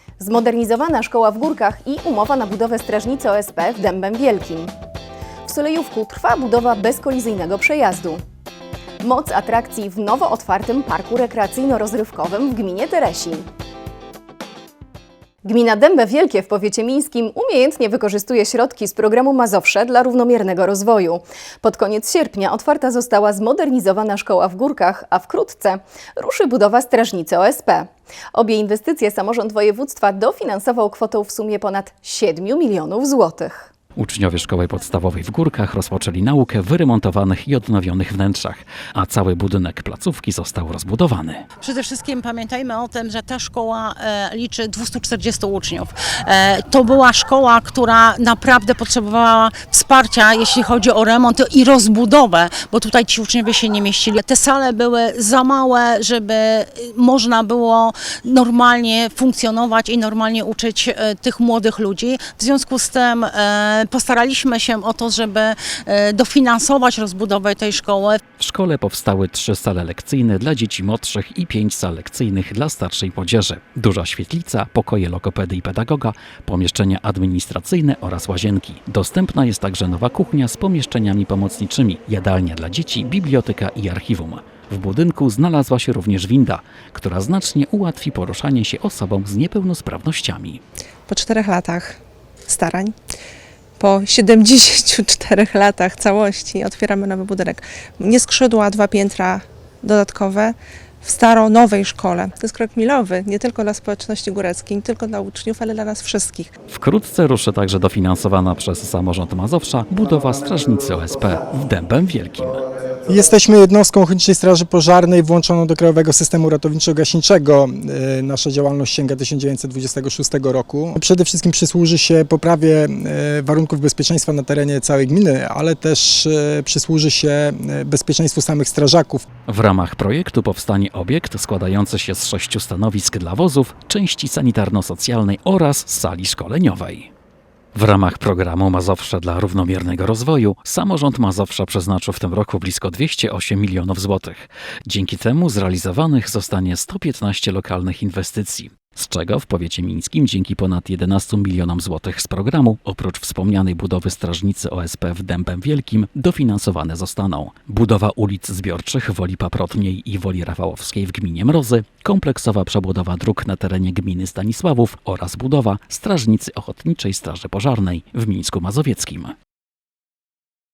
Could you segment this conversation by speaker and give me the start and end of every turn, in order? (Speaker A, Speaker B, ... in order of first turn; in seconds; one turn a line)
Speaker A: 0.2-4.7
Speaker A: 5.4-8.2
Speaker A: 9.0-13.5
Speaker A: 15.4-33.7
Speaker B: 34.0-41.4
Speaker C: 41.6-68.2
Speaker B: 68.4-90.6
Speaker D: 91.1-92.0
Speaker D: 92.5-92.9
Speaker D: 93.8-106.5
Speaker B: 106.7-112.6
Speaker E: 113.1-129.2
Speaker B: 129.5-137.1
Speaker B: 137.7-169.3